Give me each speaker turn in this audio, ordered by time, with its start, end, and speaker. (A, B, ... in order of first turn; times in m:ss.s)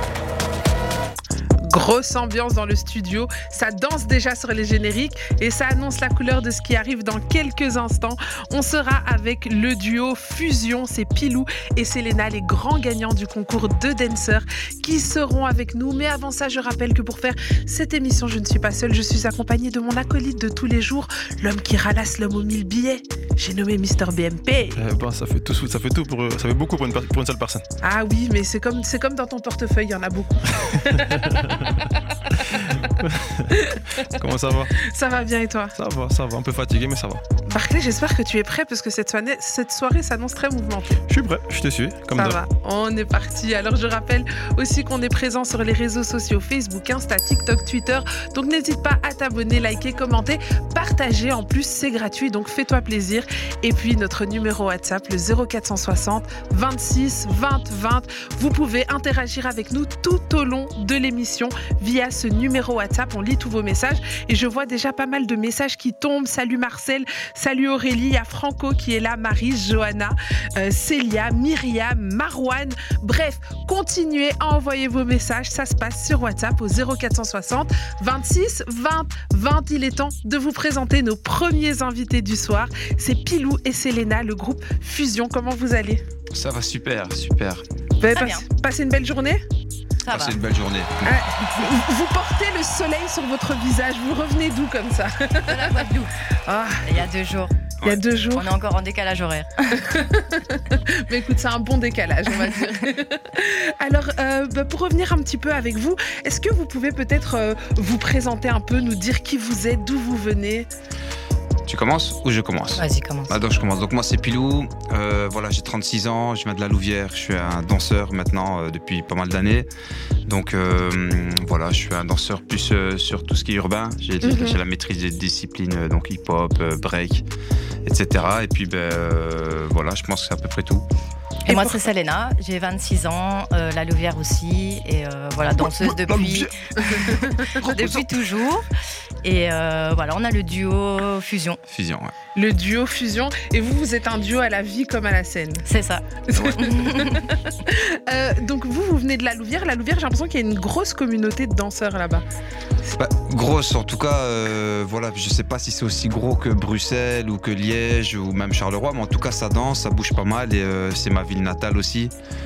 0:01.6-0:24.8 A
0:24.8-0:27.6 B
0:27.8-0:31.1 A
0:30.7-0:34.8 B
0:34.8-0:35.7 A
0:35.8-0:37.2 B
0:37.5-0:41.0 A
0:41.1-0:42.4 B
0:42.1-1:26.0 A
1:26.3-1:27.6 C
1:28.0-1:29.4 A
1:28.1-1:28.4 D
1:30.0-1:30.4 D
1:30.1-1:31.2 C
1:31.0-1:35.8 A
1:35.4-1:36.2 D
1:36.4-1:36.8 A
1:36.8-1:37.5 D
1:37.8-1:38.5 A
1:38.3-1:39.9 D
1:39.8-1:50.7 A
1:51.7-1:59.7 C
1:52.8-1:53.3 D
2:00.2-2:07.3 C
2:04.2-2:04.6 A
2:07.8-2:10.8 C
2:11.5-2:11.8 A
2:11.5-2:18.7 D
2:15.8-2:16.3 B
2:16.8-2:17.7 A
2:19.2-2:21.6 D
2:21.7-2:22.1 C
2:22.3-2:25.6 A
2:25.6-2:27.3 D
2:26.3-2:32.2 A
2:33.0-2:42.1 C